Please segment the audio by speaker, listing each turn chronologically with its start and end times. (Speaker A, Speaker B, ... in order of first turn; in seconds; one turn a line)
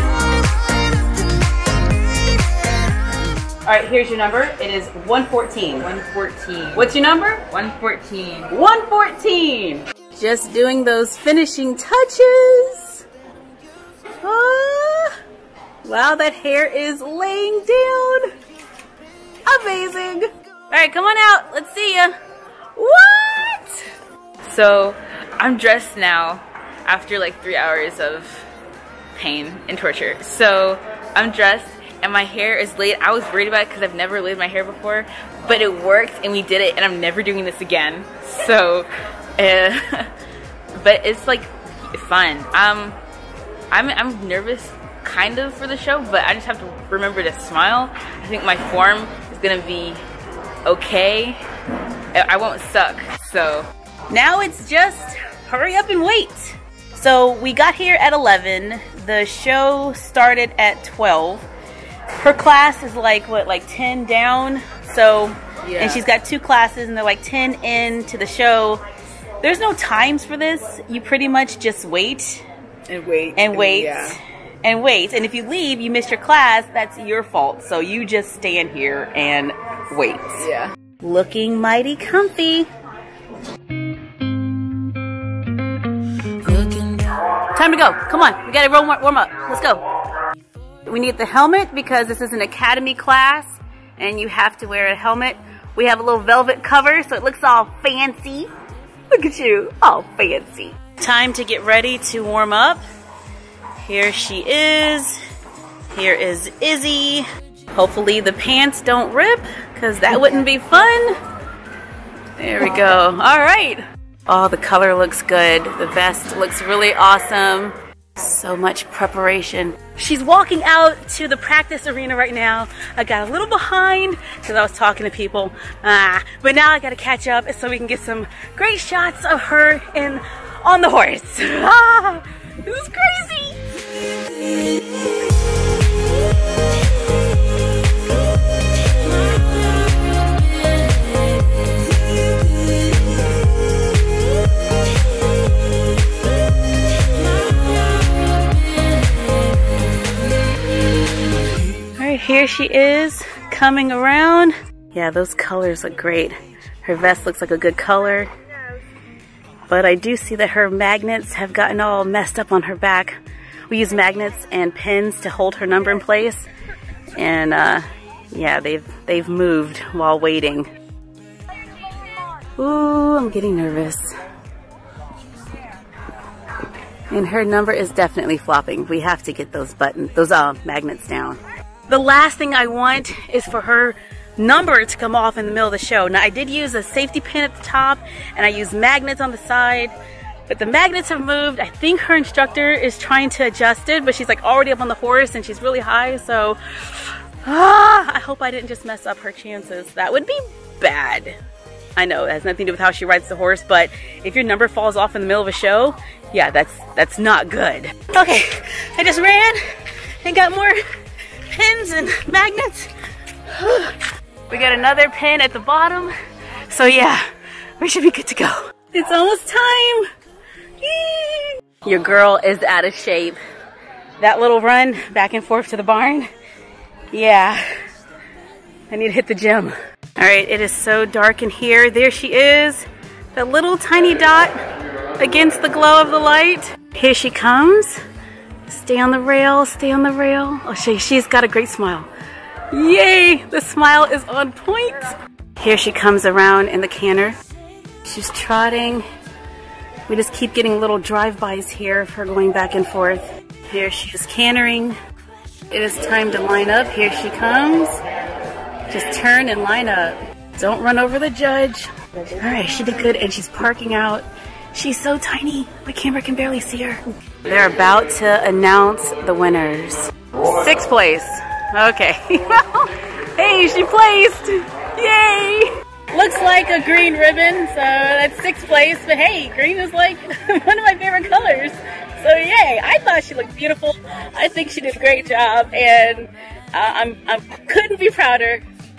Speaker A: 3.6-5.9
Speaker B: 5.8-6.9
Speaker A: 6.7-7.5
Speaker B: 7.5-8.5
Speaker A: 8.5-13.0
Speaker A: 14.2-15.1
Speaker A: 15.8-18.3
Speaker A: 19.4-22.1
Speaker A: 22.8-23.8
Speaker B: 24.4-28.4
Speaker B: 29.1-40.1
Speaker B: 40.8-43.0
Speaker B: 43.7-50.0
Speaker B: 50.6-51.4
Speaker B: 52.1-53.7
Speaker A: 54.1-61.4
Speaker A: 62.2-68.8
Speaker B: 65.6-66.0
Speaker A: 69.4-72.5
Speaker B: 72.9-74.2
Speaker A: 73.3-80.5
Speaker B: 80.4-80.7
Speaker A: 81.0-82.7
Speaker A: 86.4-89.8
Speaker A: 90.8-98.5
Speaker A: 99.1-102.8
Speaker A: 103.8-105.2
Speaker A: 105.9-111.1
Speaker A: 112.4-133.6
Speaker A: 152.0-158.3
Speaker A: 159.7-163.2
Speaker A: 163.7-166.4
Speaker A: 167.2-170.7
Speaker A: 172.6-174.1
Speaker A: 177.1-189.9
Speaker A: 190.5-201.4
Speaker A: 201.9-209.6
Speaker A: 210.2-210.8
Speaker A: 211.5-212.9
Speaker A: 213.5-216.1
Speaker A: 216.7-217.2
Speaker A: 217.8-220.1
Speaker A: 220.8-223.4
Speaker A: 224.2-226.3
Speaker A: 227.1-227.6
Speaker A: 228.9-234.6
Speaker A: 235.2-238.0
Speaker A: 238.7-242.1
Speaker A: 242.7-247.3
Speaker A: 248.0-249.0
Speaker A: 250.1-254.9
Speaker A: 255.7-258.0
Speaker A: 258.9-288.6